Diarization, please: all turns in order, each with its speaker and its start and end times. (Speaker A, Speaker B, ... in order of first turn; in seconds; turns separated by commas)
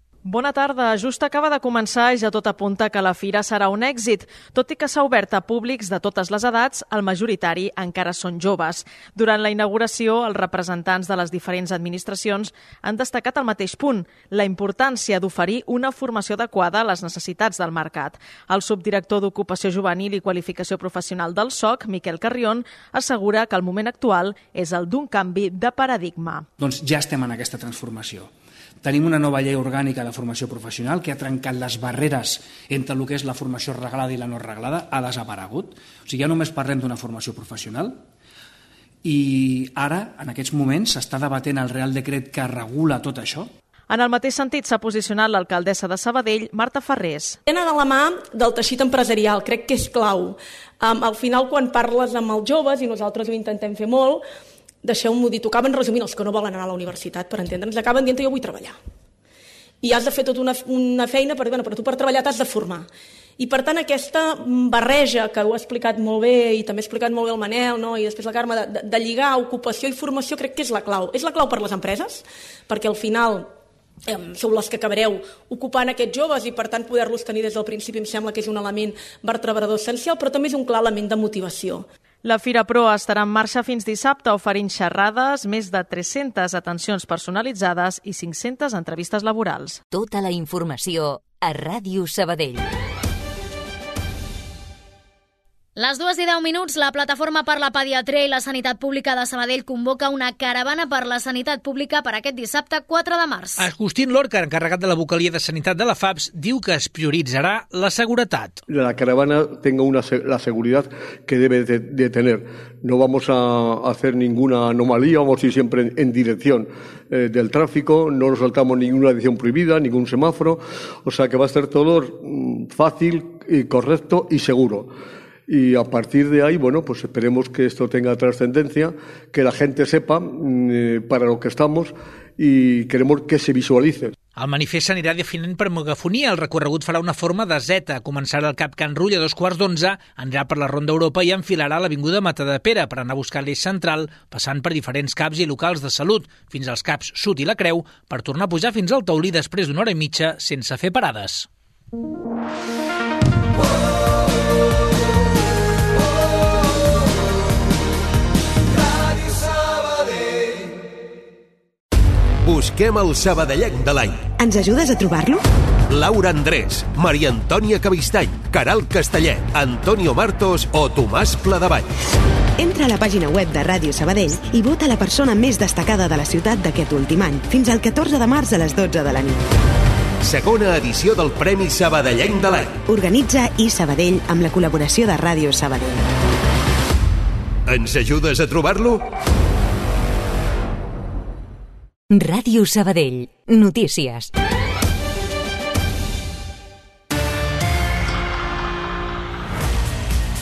Speaker A: 0.2-26.5, Speaker B: 26.6-28.3, Speaker B: 28.8-38.0, Speaker B: 39.0-43.5, Speaker A: 43.9-47.4, Speaker C: 47.5-54.2, Speaker C: 54.8-58.8, Speaker C: 59.8-62.9, Speaker C: 63.4-73.5, Speaker C: 74.1-81.9, Speaker A: 82.2-89.8, Speaker D: 89.9-92.6, Speaker E: 95.8-103.7, Speaker F: 103.6-108.6, Speaker G: 108.7-124.9, Speaker G: 125.5-134.1, Speaker F: 134.4-151.5, Speaker H: 162.4-164.2, Speaker I: 164.4-165.4, Speaker H: 165.9-171.8, Speaker I: 172.6-179.4, Speaker H: 180.2-182.8, Speaker I: 182.9-186.0, Speaker H: 187.7-189.0, Speaker D: 192.1-194.3